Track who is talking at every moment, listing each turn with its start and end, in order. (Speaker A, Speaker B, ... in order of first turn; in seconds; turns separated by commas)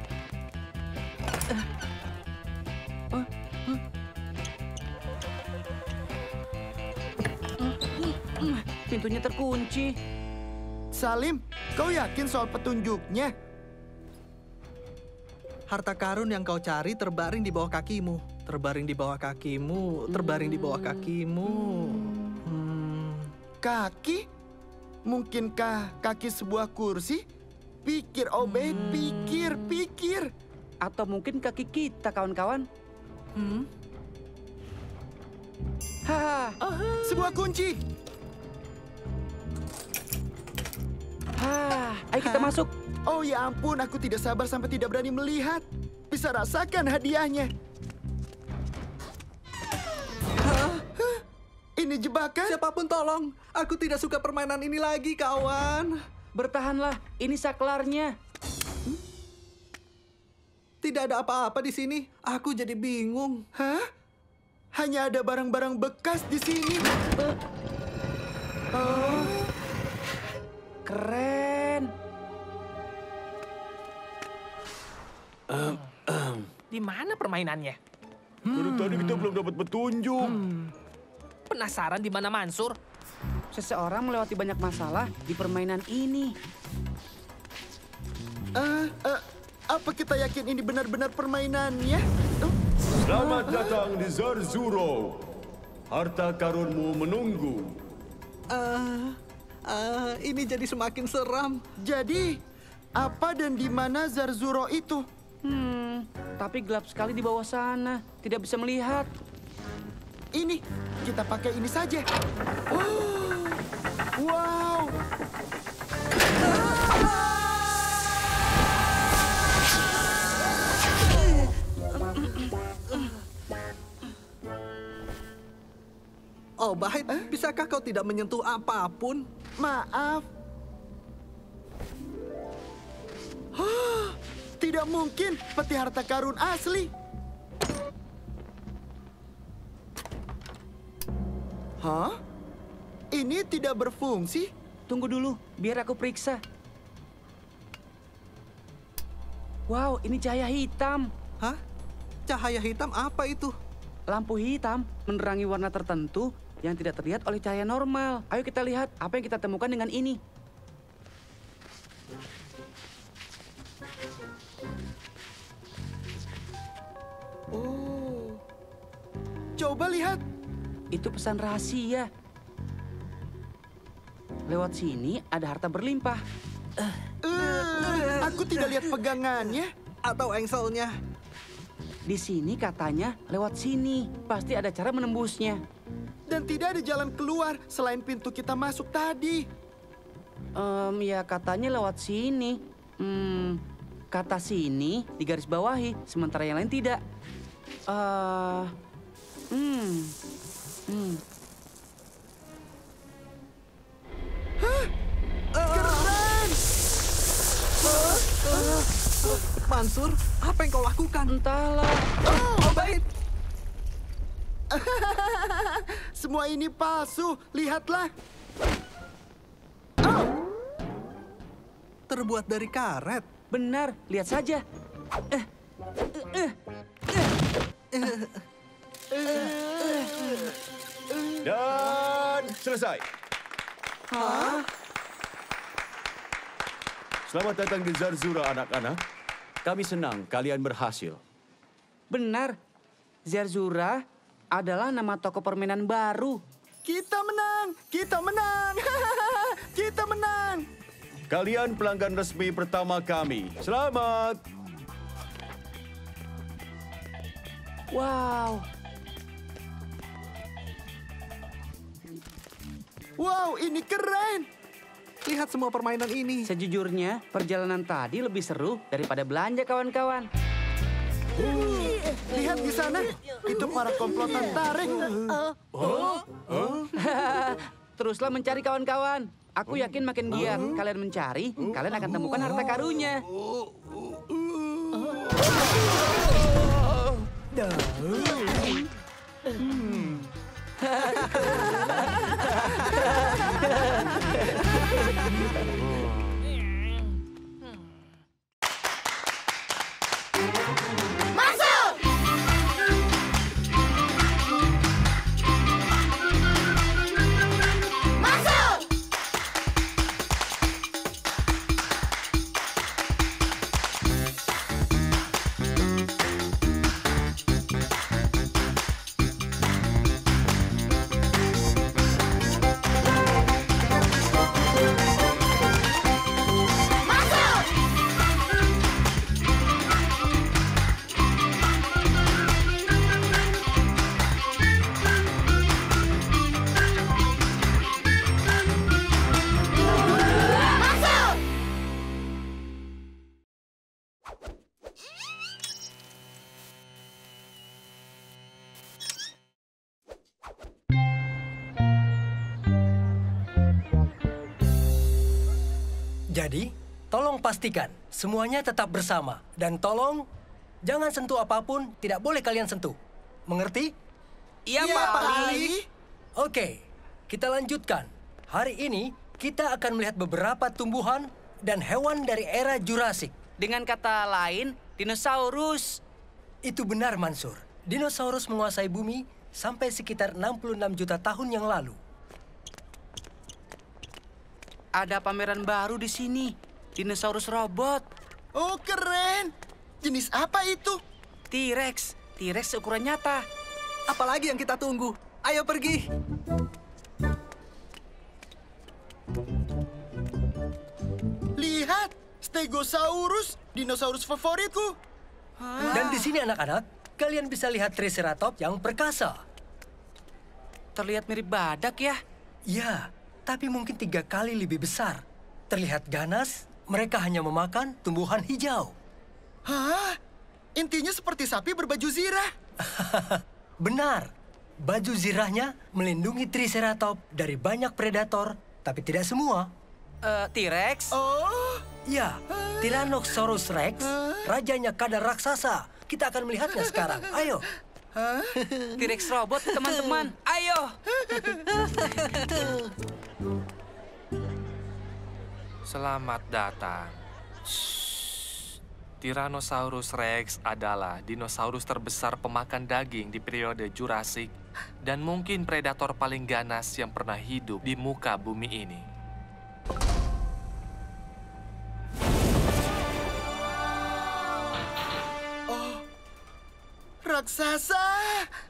Speaker A: 3.1-3.8, Speaker A: 7.6-9.9, Speaker B: 10.9-13.3, Speaker C: 15.7-23.3, Speaker A: 20.1-21.1, Speaker A: 21.9-22.4, Speaker B: 23.6-24.2, Speaker B: 25.1-27.2, Speaker B: 27.8-30.3, Speaker A: 28.7-29.3, Speaker A: 30.8-32.6, Speaker C: 33.4-33.7, Speaker A: 36.1-36.6, Speaker C: 36.7-37.0, Speaker B: 37.0-37.8, Speaker A: 41.4-42.7, Speaker C: 42.2-42.5, Speaker B: 43.1-47.5, Speaker C: 50.4-50.9, Speaker B: 51.8-52.6, Speaker C: 52.5-55.9, Speaker A: 56.3-58.1, Speaker C: 60.8-63.4, Speaker B: 63.5-63.9, Speaker B: 64.8-66.8, Speaker B: 68.7-69.3, Speaker A: 70.8-71.9, Speaker D: 75.7-76.4, Speaker E: 76.7-77.8, Speaker D: 78.5-80.4, Speaker E: 78.6-79.2, Speaker E: 80.2-80.7, Speaker E: 81.5-82.7, Speaker A: 83.5-86.3, Speaker B: 88.5-92.6, Speaker D: 93.0-95.2, Speaker B: 93.4-93.7, Speaker D: 95.9-97.8, Speaker C: 98.5-99.2, Speaker C: 99.7-101.6, Speaker B: 101.8-102.4, Speaker B: 103.0-105.0, Speaker A: 105.4-109.1, Speaker B: 110.3-112.1, Speaker B: 112.7-113.6, Speaker B: 114.2-114.9, Speaker C: 126.6-129.2, Speaker B: 129.6-130.2, Speaker B: 133.6-136.9, Speaker B: 141.8-142.2, Speaker B: 143.1-144.5, Speaker A: 144.9-146.4, Speaker A: 149.7-151.1, Speaker C: 152.3-153.5, Speaker A: 154.1-160.2, Speaker B: 167.5-168.4, Speaker B: 169.6-170.2, Speaker A: 170.9-172.1, Speaker A: 174.5-176.2, Speaker C: 176.8-178.9, Speaker B: 177.2-179.7, Speaker C: 180.0-180.9, Speaker A: 182.1-185.6, Speaker B: 186.3-189.5, Speaker A: 190.6-193.6, Speaker A: 194.1-197.0, Speaker A: 197.9-198.7, Speaker A: 199.5-200.1, Speaker A: 200.9-201.2, Speaker B: 204.6-204.9, Speaker C: 205.6-206.2, Speaker B: 205.7-206.6, Speaker A: 208.1-208.8, Speaker C: 208.3-211.3, Speaker A: 211.3-212.1, Speaker B: 212.2-212.9, Speaker C: 212.6-213.0, Speaker B: 214.7-218.1, Speaker C: 222.1-223.3, Speaker A: 223.5-224.6, Speaker A: 226.1-226.5, Speaker C: 227.9-228.4, Speaker B: 229.1-230.4, Speaker D: 231.4-233.0, Speaker A: 234.2-234.6, Speaker C: 234.2-234.6, Speaker D: 237.3-239.0, Speaker D: 239.6-241.2, Speaker A: 242.1-242.6, Speaker A: 243.2-244.0, Speaker A: 244.5-246.4, Speaker B: 246.8-250.6, Speaker D: 251.3-254.4, Speaker A: 257.9-258.6, Speaker B: 263.2-264.5, Speaker C: 265.2-266.5, Speaker A: 266.4-270.3, Speaker B: 272.2-275.1, Speaker C: 275.8-276.2, Speaker A: 276.9-283.2, Speaker F: 287.5-288.6, Speaker B: 289.6-290.2, Speaker F: 356.3-360.2, Speaker F: 360.8-363.0, Speaker F: 363.5-363.9, Speaker A: 364.7-365.7, Speaker C: 364.8-365.7, Speaker B: 364.8-365.9, Speaker F: 366.4-366.8, Speaker F: 367.3-373.3, Speaker A: 373.6-376.0, Speaker F: 376.6-382.0, Speaker A: 384.9-388.0, Speaker B: 388.5-391.0, Speaker A: 391.5-393.4, Speaker C: 394.1-396.0, Speaker B: 401.6-404.9, Speaker A: 405.6-406.3, Speaker F: 405.8-409.4, Speaker A: 410.9-412.2, Speaker F: 412.7-418.9, Speaker B: 419.6-420.2, Speaker B: 420.8-422.5, Speaker F: 422.8-424.3, Speaker F: 424.8-429.7, Speaker A: 430.2-431.1, Speaker B: 431.1-431.8, Speaker F: 432.1-437.7, Speaker B: 432.6-433.0, Speaker B: 434.0-434.5, Speaker B: 438.1-438.6, Speaker A: 439.0-440.9, Speaker C: 439.9-440.2, Speaker B: 441.3-441.6, Speaker C: 441.9-442.8, Speaker G: 445.9-447.1, Speaker G: 449.2-454.5, Speaker G: 455.0-459.0, Speaker B: 465.7-466.0, Speaker B: 467.2-468.5